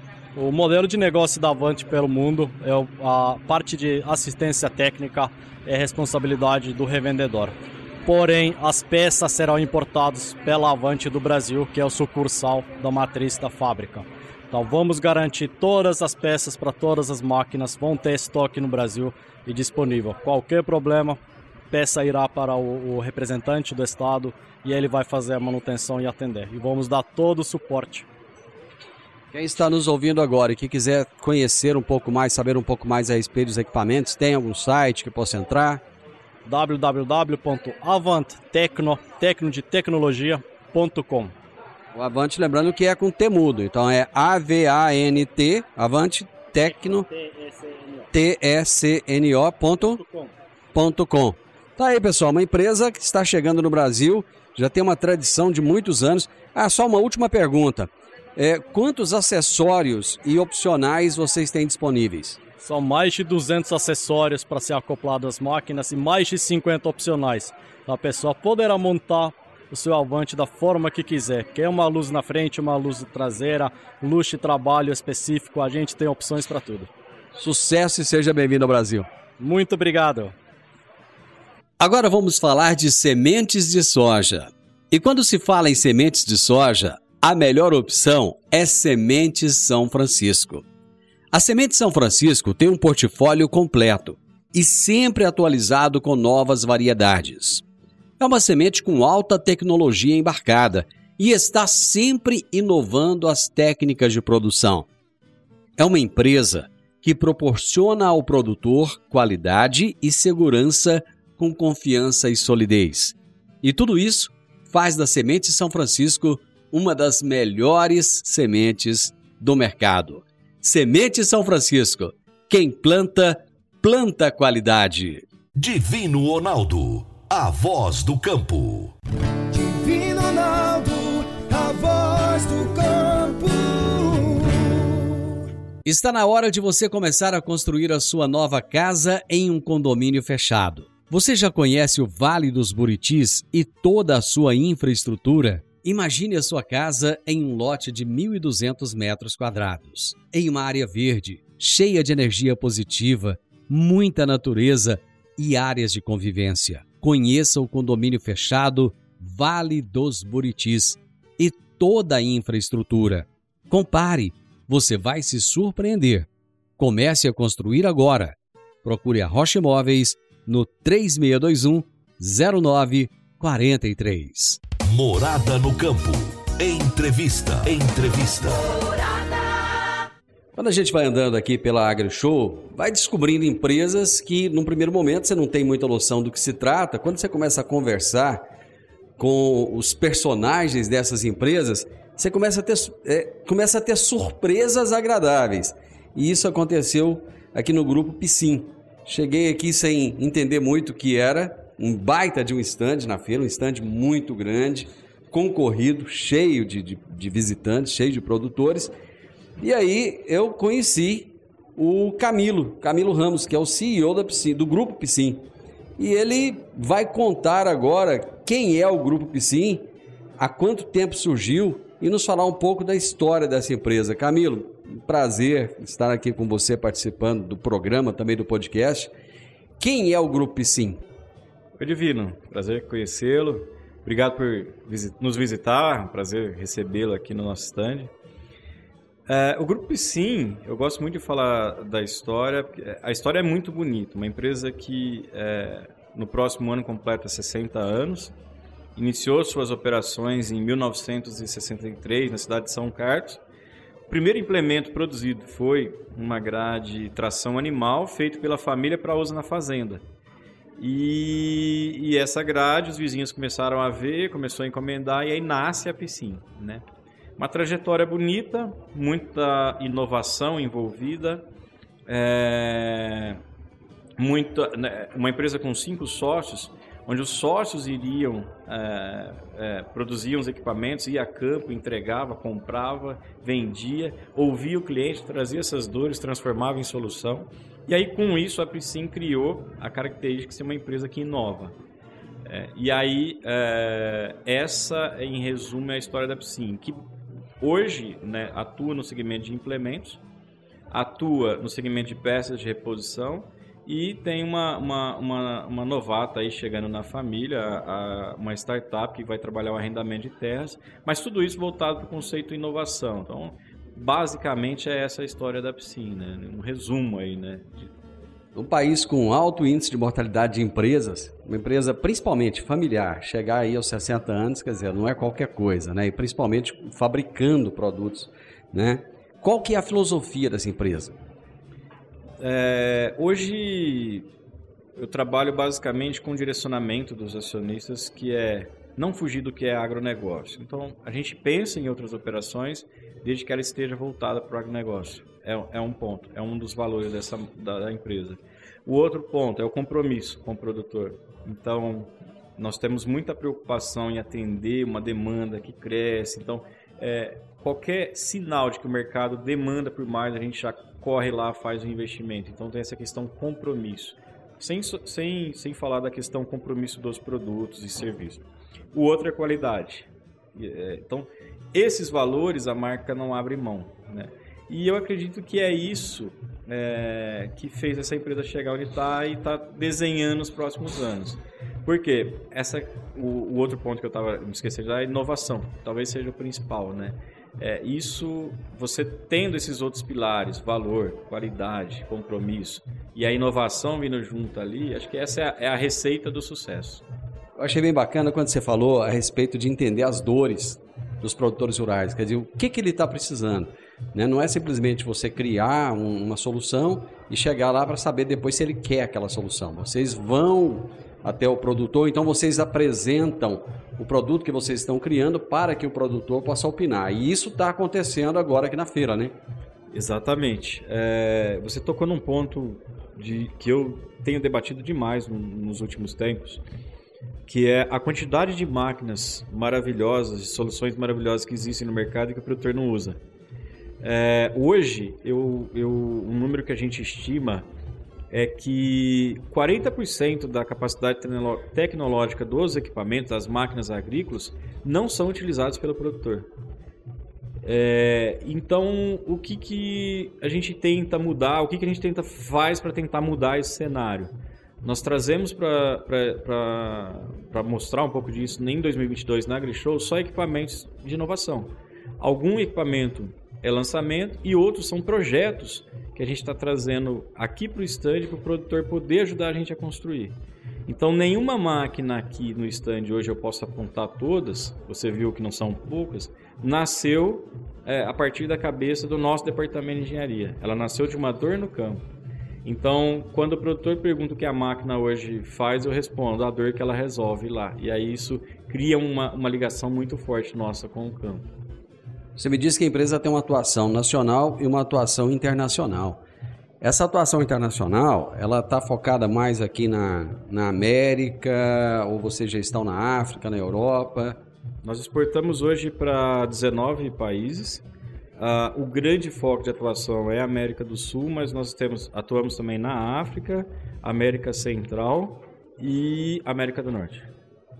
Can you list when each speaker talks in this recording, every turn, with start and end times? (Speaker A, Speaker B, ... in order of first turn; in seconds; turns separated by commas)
Speaker A: 0.4-21.2, Speaker A: 21.7-28.1, Speaker B: 29.3-35.8, Speaker A: 36.5-41.3, Speaker B: 41.9-47.1, Speaker A: 46.6-48.1, Speaker B: 48.1-50.0, Speaker A: 50.0-50.3, Speaker B: 50.7-62.4, Speaker A: 62.6-76.9, Speaker B: 77.3-79.1, Speaker A: 79.4-80.3, Speaker B: 81.8-90.7, Speaker B: 91.3-97.6, Speaker B: 98.2-104.9, Speaker B: 105.8-125.2, Speaker C: 125.6-128.9, Speaker D: 129.5-135.4, Speaker B: 135.8-174.6, Speaker C: 174.9-178.7, Speaker B: 180.6-188.4, Speaker B: 189.2-208.9, Speaker B: 209.6-215.5, Speaker B: 216.0-219.9, Speaker B: 220.4-229.1, Speaker B: 229.8-231.0, Speaker E: 231.8-238.1, Speaker E: 239.3-248.3, Speaker E: 249.0-253.4, Speaker E: 254.1-260.0, Speaker E: 260.8-266.9, Speaker E: 267.4-271.4, Speaker E: 272.1-273.4, Speaker E: 274.2-291.8, Speaker E: 292.4-297.0, Speaker E: 297.6-300.2, Speaker E: 300.9-317.9, Speaker B: 318.6-331.2, Speaker E: 332.4-334.3, Speaker E: 335.0-397.0, Speaker B: 397.6-419.4, Speaker E: 419.9-426.6, Speaker E: 427.5-433.2, Speaker E: 434.0-437.7, Speaker E: 438.3-446.5, Speaker E: 447.6-454.3, Speaker E: 454.8-470.4, Speaker E: 470.9-482.1, Speaker E: 482.6-491.4, Speaker B: 492.4-496.2, Speaker B: 496.8-504.4, Speaker E: 504.8-507.8, Speaker E: 508.4-517.3